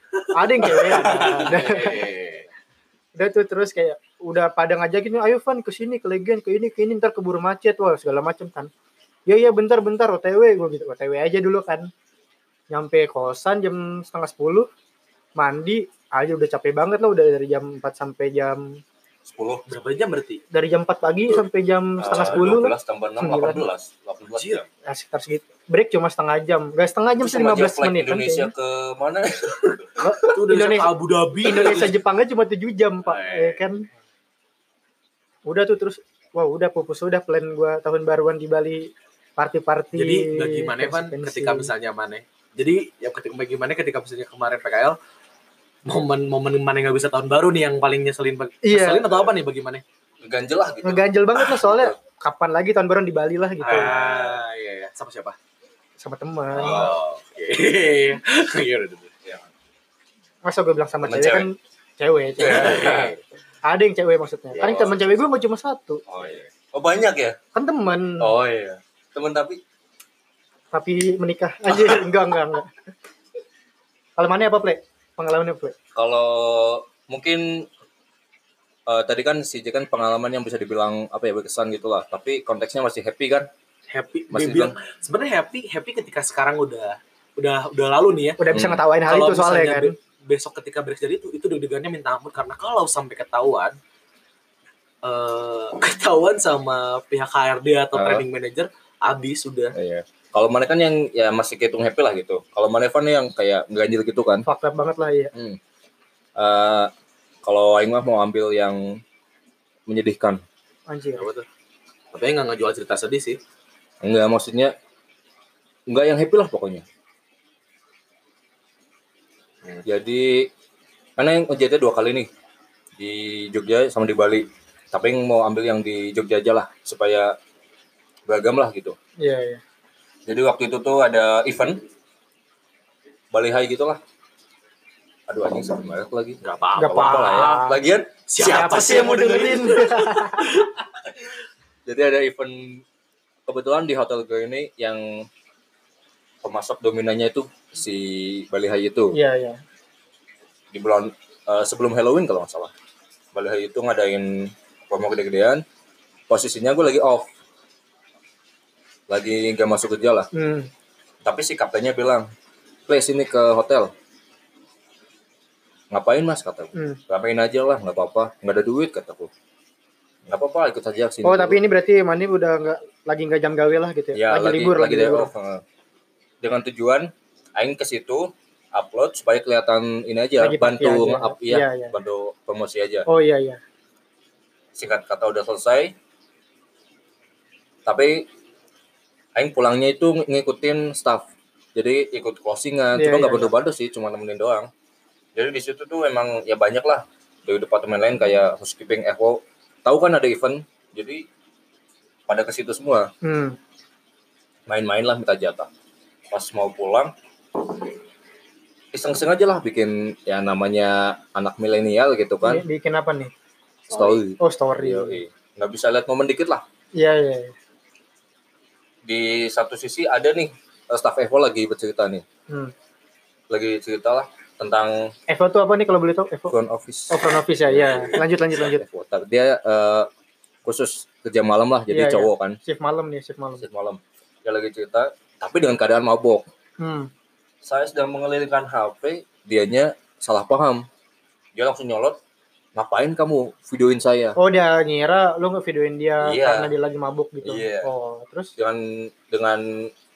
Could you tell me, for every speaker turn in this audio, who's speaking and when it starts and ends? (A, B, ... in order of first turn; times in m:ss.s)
0:00.2-0:02.5 A
0:00.3-0:02.0 B
0:00.9-0:01.7 C
0:03.2-0:08.7 B
0:09.3-0:11.9 B
0:12.7-0:14.7 B
0:15.4-0:18.8 B
0:19.2-0:19.7 C
0:19.7-0:20.4 A
0:20.5-0:23.6 B
0:22.0-0:24.7 C
0:24.3-0:24.6 A
0:24.8-0:28.5 B
0:27.2-0:30.3 C
0:30.0-0:30.9 B
0:30.3-0:32.0 A
0:31.4-0:33.9 B
0:33.0-0:33.6 A
0:35.5-0:41.7 B
0:40.0-0:45.0 A
0:45.8-0:49.8 A
0:48.6-0:49.0 B
0:50.2-0:52.0 C
0:50.8-0:53.9 B
0:53.6-0:55.4 A
0:53.6-0:54.4 C
0:56.0-0:56.9 B
0:56.6-0:59.1 A
0:56.6-0:56.9 C
1:00.4-1:03.0 B
1:01.0-1:01.5 C
1:02.4-1:03.1 C
1:02.4-1:03.2 A
1:03.6-1:06.0 B
1:04.6-1:04.9 A
1:04.6-1:05.0 C
1:06.1-1:07.4 C
1:07.5-1:08.3 B
1:08.2-1:09.6 C
1:10.7-1:12.7 B
1:14.2-1:15.7 B
1:15.9-1:17.7 C
1:18.9-1:23.5 C
1:23.9-1:28.4 A
1:24.3-1:24.7 C
1:28.4-1:29.9 B
1:28.5-1:28.8 C
1:29.1-1:33.8 A
1:35.0-1:39.7 A
1:37.9-1:38.2 C
1:39.7-1:44.4 C
1:44.4-1:45.3 B
1:45.3-1:45.6 C
1:46.4-1:46.9 C
1:47.4-1:49.0 C
1:49.9-1:50.4 C
1:50.9-1:51.3 B
1:51.2-1:51.4 A
1:52.1-1:53.4 A
1:54.0-1:54.7 C
1:55.9-1:56.8 C
1:59.8-2:00.5 C
2:01.2-2:02.3 C
2:03.0-2:07.4 C
2:08.3-2:09.0 C
2:09.2-2:09.6 B
2:10.3-2:11.8 C
2:13.3-2:14.0 C
2:15.3-2:19.3 C
2:16.4-2:17.6 A
2:16.8-2:17.8 B
2:18.3-2:20.8 A
2:18.4-2:20.5 B
2:21.8-2:22.8 C
2:23.4-2:25.3 C
2:26.4-2:29.2 C
2:29.1-2:29.6 B
2:30.7-2:32.7 C
2:33.3-2:35.6 C
2:36.3-2:37.3 C
2:39.1-2:40.3 C
2:40.3-2:40.7 B
2:41.2-2:42.3 C
2:42.9-2:43.9 C
2:45.9-2:49.3 C
2:50.2-2:51.6 C
2:51.2-2:55.3 B
2:54.1-2:55.6 C
2:56.4-3:03.0 C
3:00.4-3:01.9 B
3:03.1-3:03.6 B
3:04.7-3:05.9 C
3:07.8-3:08.3 C
3:09.4-3:14.7 C
3:12.9-3:13.5 B
3:15.3-3:21.2 C
3:22.3-3:23.1 C
3:23.2-3:23.6 B
3:24.7-3:25.7 C
3:26.3-3:27.8 C
3:28.9-3:32.6 C
3:32.4-3:33.3 B
3:33.9-3:36.6 C
3:33.9-3:34.2 A
3:34.4-3:35.2 B
3:37.0-3:37.5 B
3:39.0-3:42.2 C
3:43.5-3:45.1 C
3:45.3-3:46.5 B
3:46.5-3:50.1 C
3:47.1-3:48.8 B
3:50.6-3:52.6 C
3:51.9-3:53.6 B
3:53.6-3:56.4 C
3:56.8-3:57.1 B
3:57.6-4:00.8 C
4:01.5-4:02.2 C
4:02.7-4:04.4 C
4:04.4-4:08.5 B
4:06.2-4:06.7 C
4:07.4-4:07.9 C
4:08.6-4:09.9 C